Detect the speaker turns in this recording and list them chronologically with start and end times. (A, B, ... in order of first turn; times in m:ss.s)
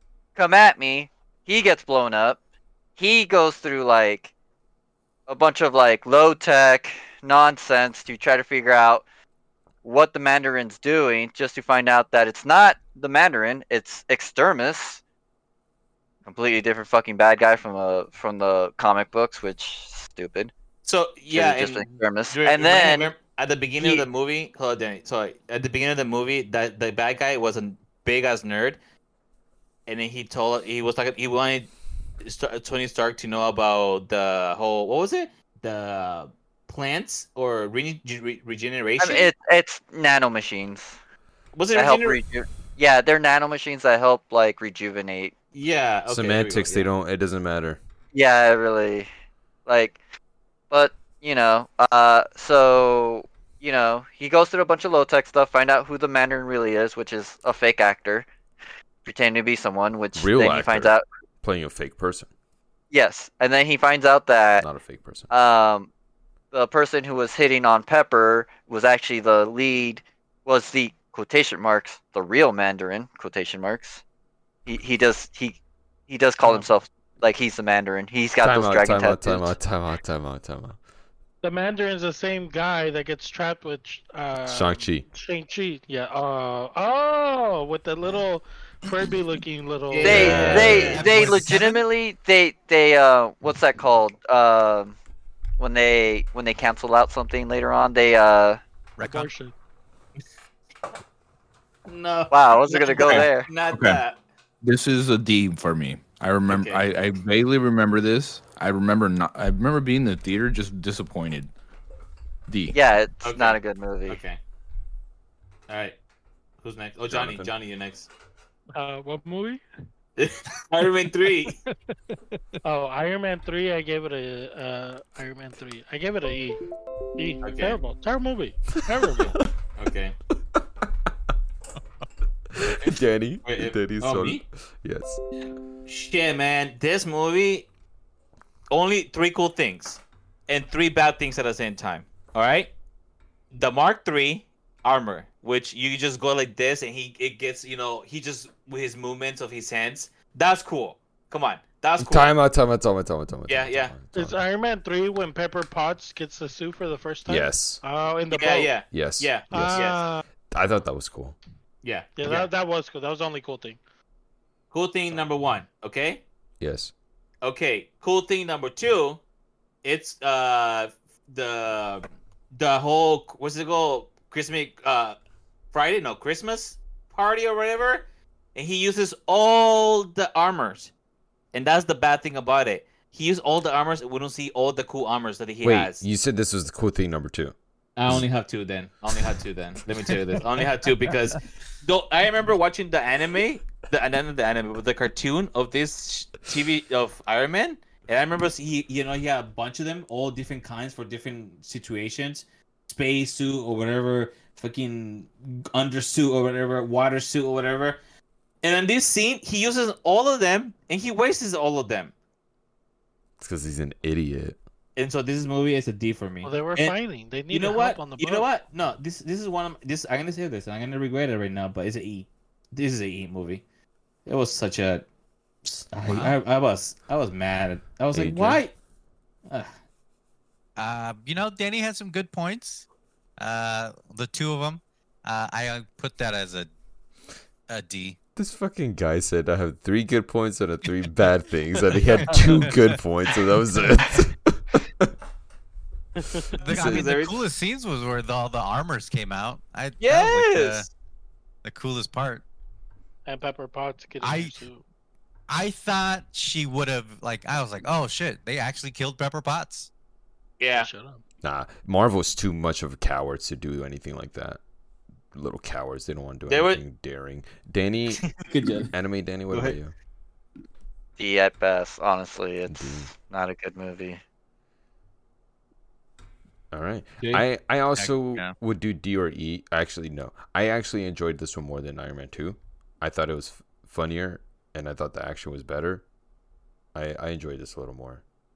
0:00.4-0:02.4 A
0:03.0-0:04.3 A
0:05.3-0:09.0 A
0:09.8-0:15.0 A
0:16.2-0:20.5 A
0:20.8-0:28.8 B
0:21.3-0:23.1 A
0:23.8-0:24.0 A
0:29.9-0:39.3 B
0:39.0-0:41.0 A
0:41.5-0:42.2 B
0:41.7-0:45.3 A
0:45.5-0:46.9 B
0:46.1-0:47.8 C
0:48.1-0:49.1 A
0:49.6-0:50.0 A
0:50.7-0:58.3 A
0:59.0-1:01.0 A
1:00.1-1:02.3 C
1:02.9-1:04.7 A
1:04.6-1:05.3 C
1:05.3-1:05.9 A
1:06.5-1:14.0 A
1:14.6-1:19.5 A
1:18.4-1:20.8 C
1:21.4-1:30.6 D
1:24.4-1:25.0 C
1:29.9-1:31.1 B
1:30.0-1:31.0 C
1:30.0-1:35.0 A
1:30.2-1:31.8 E
1:35.6-1:38.6 A
1:39.0-1:39.3 E
1:39.0-1:39.5 D
1:41.8-1:44.2 B
1:42.3-1:43.5 A
1:43.0-1:44.0 F
1:44.6-1:51.5 F
1:46.5-1:46.8 B
1:52.5-1:52.8 F
1:52.7-1:54.2 A
1:53.2-1:54.4 B
1:55.7-1:56.0 B
1:56.6-1:58.1 B
1:57.1-1:57.5 C
1:58.7-1:59.6 D
2:00.2-2:01.6 B
2:01.7-2:06.6 D
2:07.2-2:09.4 D
2:07.4-2:07.8 B
2:09.8-2:10.1 B
2:12.5-2:15.2 C
2:13.4-2:14.4 B
2:15.8-2:17.7 B
2:18.7-2:22.7 B
2:23.5-2:32.3 B
2:32.0-2:34.4 C
2:33.5-2:34.0 B
2:34.1-2:38.8 D
2:37.3-2:37.8 C
2:38.3-2:40.0 B
2:38.9-2:39.8 C
2:39.5-2:40.2 D
2:40.5-2:41.4 C
2:41.8-2:42.5 B
2:42.2-2:43.8 D
2:44.7-2:46.2 B
2:46.6-2:46.9 C
2:47.4-2:49.2 B
2:49.8-2:55.2 B
2:55.7-3:00.9 B
3:01.5-3:06.0 B
3:05.6-3:07.5 C
3:08.0-3:28.0 B
3:28.6-3:32.1 B
3:33.4-3:34.6 C
3:35.0-3:37.0 B
3:36.4-3:38.5 D
3:37.5-3:43.6 B
3:44.2-3:45.0 B
3:45.6-3:48.7 B
3:46.0-3:46.3 E
3:48.1-3:48.6 C
3:49.5-3:49.7 B
3:50.8-3:52.9 E
3:53.4-3:56.7 E
3:57.7-3:58.2 E
3:58.4-4:05.1 C
4:02.2-4:02.8 E
4:06.2-4:06.8 D
4:06.6-4:10.9 E
4:06.6-4:07.1 C
4:06.7-4:07.4 B
4:10.0-4:10.9 B
4:11.6-4:12.4 E
4:13.2-4:14.8 D
4:14.2-4:14.6 E
4:15.5-4:19.9 E
4:20.6-4:20.9 B
4:20.7-4:21.2 D
4:21.4-4:24.6 C
4:25.3-4:28.4 C
4:26.5-4:26.8 B
4:28.3-4:28.9 B
4:28.9-4:29.9 C
4:29.5-4:29.8 B
4:31.2-4:34.2 A
4:32.7-4:33.1 C
4:36.7-4:46.0 C
4:37.2-4:37.4 B
4:38.0-4:38.5 E
4:46.9-4:48.2 C